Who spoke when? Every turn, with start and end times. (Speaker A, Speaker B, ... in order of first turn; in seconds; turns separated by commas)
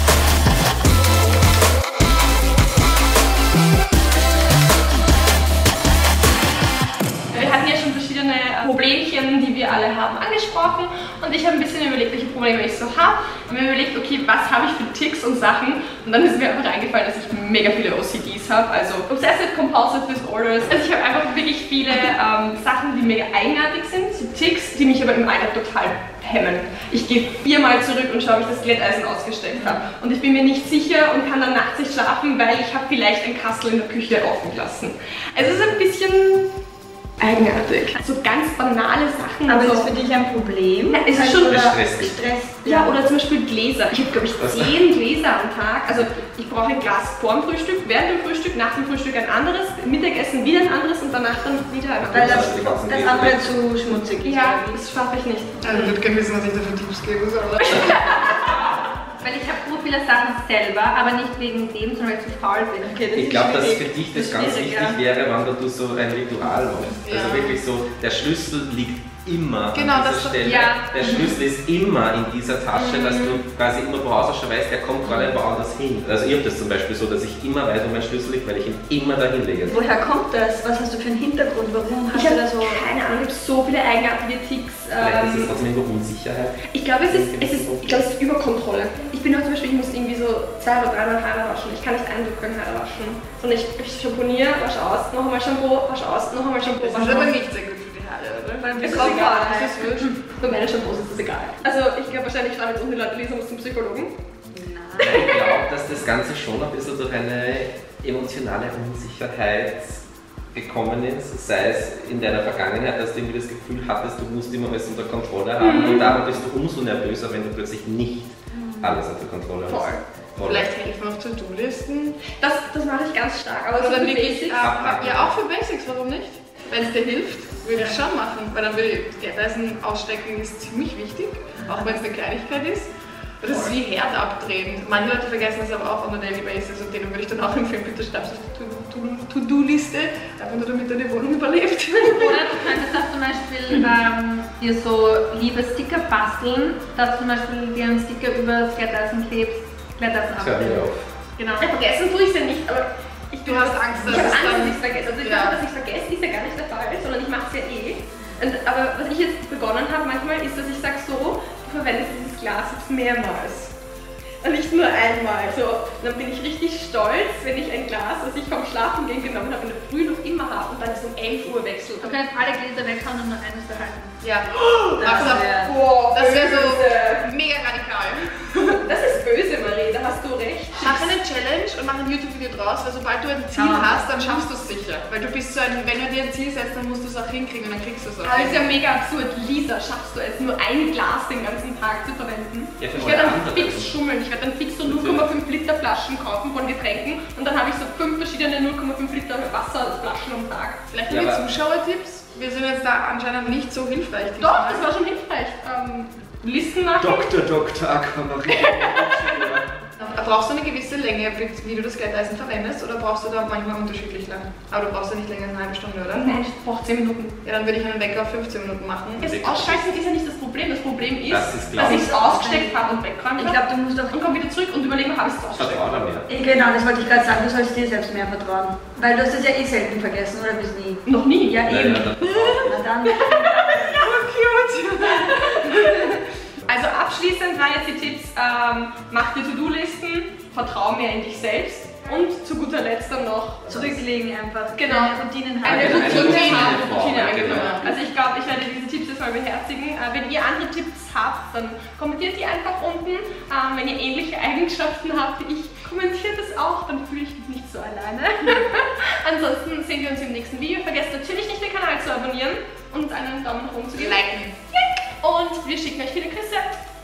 Speaker A: 7.3-36.5, Speaker B: 29.6-29.8, Speaker A: 37.2-39.9, Speaker B: 39.5-43.0, Speaker A: 40.9-41.7, Speaker C: 41.5-42.2, Speaker A: 42.6-52.4, Speaker C: 44.4-44.7, Speaker C: 52.0-53.5, Speaker B: 52.1-54.8, Speaker A: 54.2-56.0, Speaker D: 55.6-58.2, Speaker A: 57.6-58.8, Speaker E: 59.2-63.0, Speaker B: 62.8-65.0, Speaker C: 63.1-79.8, Speaker D: 66.8-67.6, Speaker D: 69.7-70.8, Speaker E: 70.4-71.0, Speaker A: 72.8-73.4, Speaker B: 75.1-75.3, Speaker B: 79.7-82.8, Speaker A: 82.1-85.5, Speaker C: 85.0-88.1, Speaker A: 86.7-97.4, Speaker D: 96.6-100.1, Speaker B: 98.6-100.2, Speaker A: 98.8-99.8, Speaker A: 100.3-104.1, Speaker B: 104.5-105.2, Speaker C: 105.0-120.7, Speaker A: 115.6-116.2, Speaker A: 119.7-120.0, Speaker D: 120.4-122.2, Speaker A: 122.3-124.6, Speaker D: 123.8-132.9, Speaker C: 124.5-125.3, Speaker D: 133.4-142.5, Speaker E: 142.0-150.9, Speaker C: 150.4-151.2, Speaker D: 151.4-151.6, Speaker A: 151.6-163.7, Speaker D: 153.4-155.6, Speaker A: 164.4-172.2, Speaker E: 172.0-174.2, Speaker D: 174.2-175.5, Speaker A: 174.6-177.3, Speaker B: 175.0-175.7, Speaker E: 175.1-175.4, Speaker D: 176.1-178.8, Speaker A: 178.6-181.1, Speaker D: 180.8-188.7, Speaker A: 183.6-183.8, Speaker B: 183.8-184.2, Speaker A: 188.2-200.8, Speaker C: 192.8-194.0, Speaker C: 194.8-195.3, Speaker D: 200.9-204.9, Speaker C: 201.1-201.4, Speaker A: 204.4-207.4, Speaker C: 207.0-209.7, Speaker A: 208.5-209.4, Speaker D: 210.0-216.5, Speaker A: 216.1-217.3, Speaker D: 217.4-219.3, Speaker C: 219.2-219.8, Speaker A: 219.2-226.0, Speaker C: 221.3-222.2, Speaker B: 221.8-222.8, Speaker B: 223.4-224.2, Speaker C: 225.5-226.3, Speaker B: 226.3-233.9, Speaker A: 231.1-231.7, Speaker C: 231.6-232.9, Speaker A: 233.0-234.3, Speaker D: 233.8-236.0, Speaker A: 235.0-243.9, Speaker B: 243.7-246.8, Speaker A: 244.8-266.8, Speaker C: 245.6-247.7, Speaker D: 246.2-246.7, Speaker D: 247.4-247.9, Speaker D: 264.0-264.6